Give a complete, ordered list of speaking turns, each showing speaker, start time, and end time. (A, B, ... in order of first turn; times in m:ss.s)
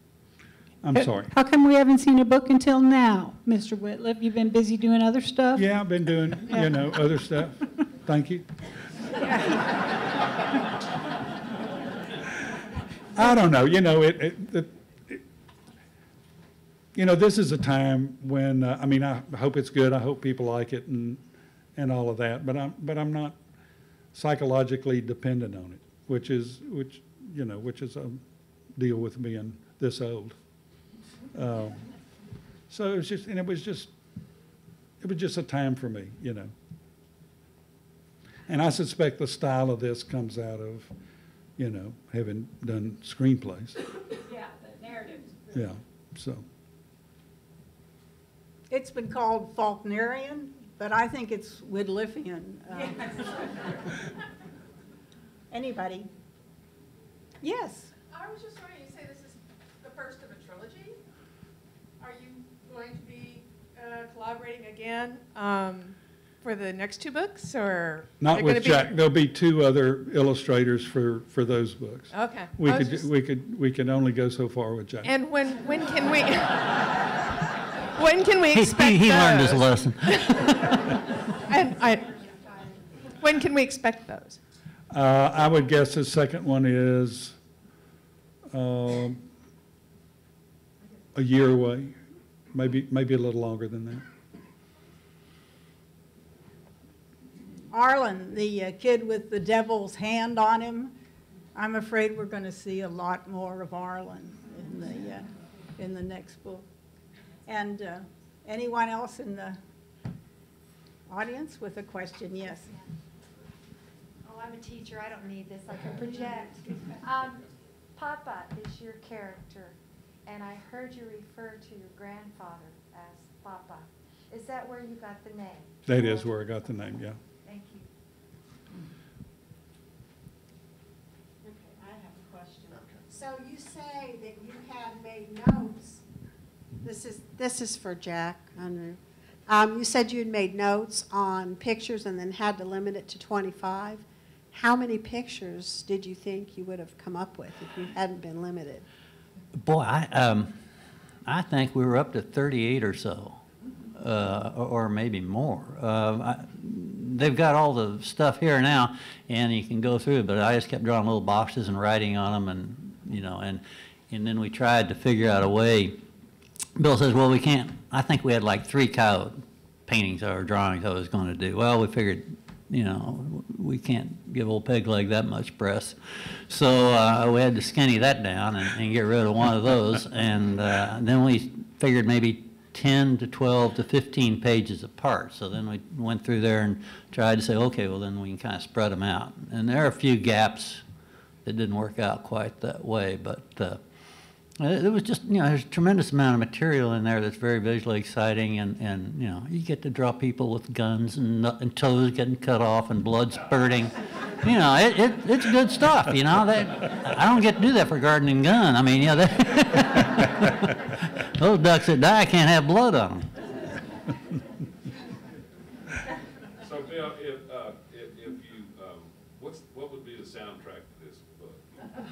0:00.8-0:01.3 A
0:00.9-0:07.0 B
0:05.6-0:08.5 A
0:13.2-0:15.2 A
0:17.0-0:21.2 A
0:21.8-0:23.4 A
0:24.1-0:28.2 A
0:28.8-0:30.4 A
0:31.3-0:31.8 A
0:32.7-0:33.9 A
0:35.0-0:36.5 A
0:38.5-0:40.9 A
0:41.6-0:43.8 A
0:44.3-0:45.4 C
0:45.5-0:46.4 A
0:48.7-0:53.3 D
0:55.5-0:56.1 D
0:57.4-0:57.9 D
0:58.1-1:01.0 C
1:02.0-1:09.0 C
1:08.2-1:15.1 A
1:12.1-1:13.1 C
1:15.0-1:16.9 C
1:18.0-1:20.8 C
1:18.5-1:20.9 E
1:21.5-1:22.2 C
1:23.2-1:24.4 C
1:24.9-1:27.4 A
1:28.5-1:29.2 A
1:31.2-1:32.0 A
1:32.5-1:34.0 A
1:37.7-1:40.9 D
1:41.6-1:46.6 D
1:47.5-1:49.6 D
1:51.1-1:52.7 D
1:54.2-1:57.4 F
1:58.0-2:06.3 F
2:05.9-2:07.2 A
2:07.4-2:07.9 F
2:11.4-2:16.0 G
2:16.8-2:28.8 G
2:29.6-2:30.6 E
2:31.3-2:33.4 E
2:34.0-2:46.0 E
2:46.8-3:10.8 E
3:11.4-3:13.8 E
3:14.6-3:33.3 E
3:36.6-3:41.6 H